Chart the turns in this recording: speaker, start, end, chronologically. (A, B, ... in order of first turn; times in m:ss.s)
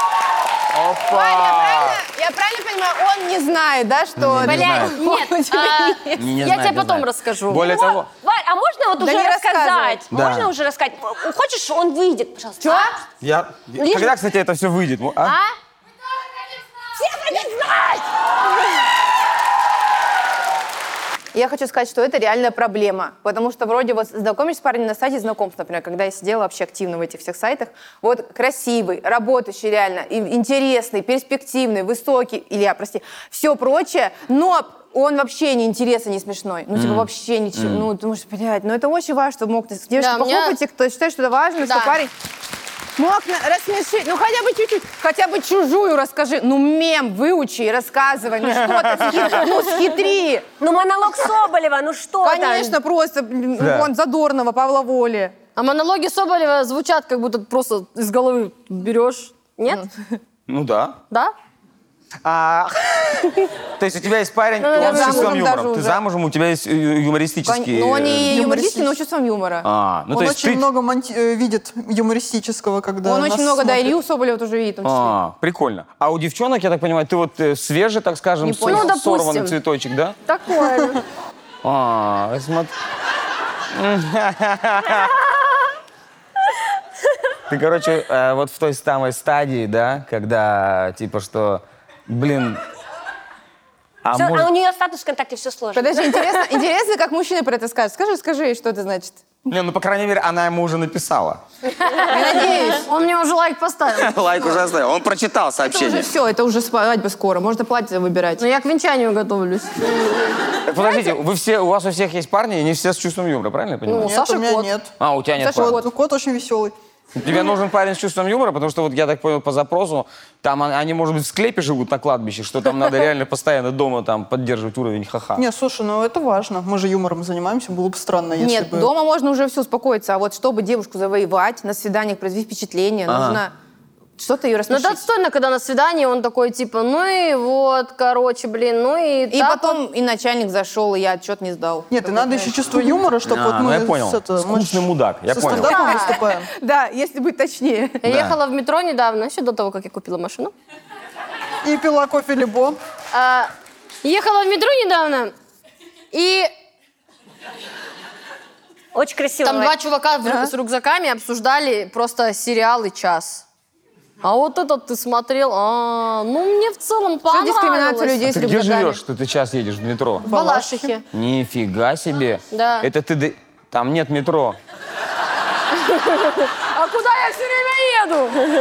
0:00.7-0:02.0 A
0:01.1-0:06.2 B
0:04.2-0:05.0 A
0:04.5-0:07.9 C
0:06.2-0:08.1 A
0:07.7-0:12.9 D
0:09.0-0:10.1 B
0:10.1-0:10.5 A
0:12.6-0:13.0 B
0:13.2-0:15.4 A
0:13.8-0:14.1 D
0:15.2-0:15.6 C
0:17.0-0:18.1 D
0:21.3-0:42.1 B
0:36.8-0:37.9 A
0:40.0-0:40.6 C
0:41.6-0:42.0 C
0:43.0-0:50.5 B
0:48.5-0:49.5 A
0:50.6-0:52.8 D
0:52.2-0:55.4 B
0:53.6-0:53.9 A
0:55.6-0:59.9 C
1:00.5-1:01.0 A
1:02.2-1:08.4 A
1:04.6-1:05.4 C
1:04.8-1:06.0 B
1:07.5-1:09.7 B
1:08.3-1:09.0 E
1:09.6-1:10.6 A
1:10.1-1:14.0 E
1:13.0-1:15.2 B
1:14.8-1:20.2 A
1:18.4-1:18.9 B
1:18.6-1:19.6 C
1:20.3-1:21.0 C
1:21.6-1:22.7 A
1:23.7-1:25.1 A
1:27.5-1:32.6 A
1:34.0-1:34.5 A
1:34.1-1:36.5 D
1:35.8-1:39.2 B
1:39.5-1:41.4 A
1:41.8-1:44.5 C
1:42.0-1:42.9 B
1:44.0-1:46.1 A
1:45.7-1:48.4 B
1:48.4-1:50.0 C
1:50.6-1:54.2 A
1:53.9-1:54.7 C
1:54.0-1:54.9 E
1:55.0-1:55.8 A
1:55.4-1:55.8 B
1:55.6-1:56.7 E
1:57.2-2:05.4 A
2:05.4-2:08.9 E
2:08.4-2:13.5 B
2:13.1-2:13.4 A
2:14.2-2:15.0 B
2:14.7-2:19.8 C
2:19.3-2:22.8 B
2:21.9-2:26.5 E
2:23.3-2:25.8 A
2:25.6-2:28.0 B
2:25.6-2:26.2 C
2:28.0-2:30.5 C
2:28.0-2:28.4 A
2:31.6-2:32.8 E
2:33.1-2:33.5 C
2:34.0-2:35.3 C
2:36.1-2:36.5 C
2:38.9-2:39.7 D
2:39.4-2:43.4 C
2:40.2-2:40.5 B
2:44.2-2:48.2 C
2:47.3-2:49.0 B
2:48.2-2:50.3 A
2:50.2-2:51.0 C
2:50.3-2:50.9 E
2:51.1-2:54.6 A
2:52.5-2:52.9 C
2:55.8-2:58.4 C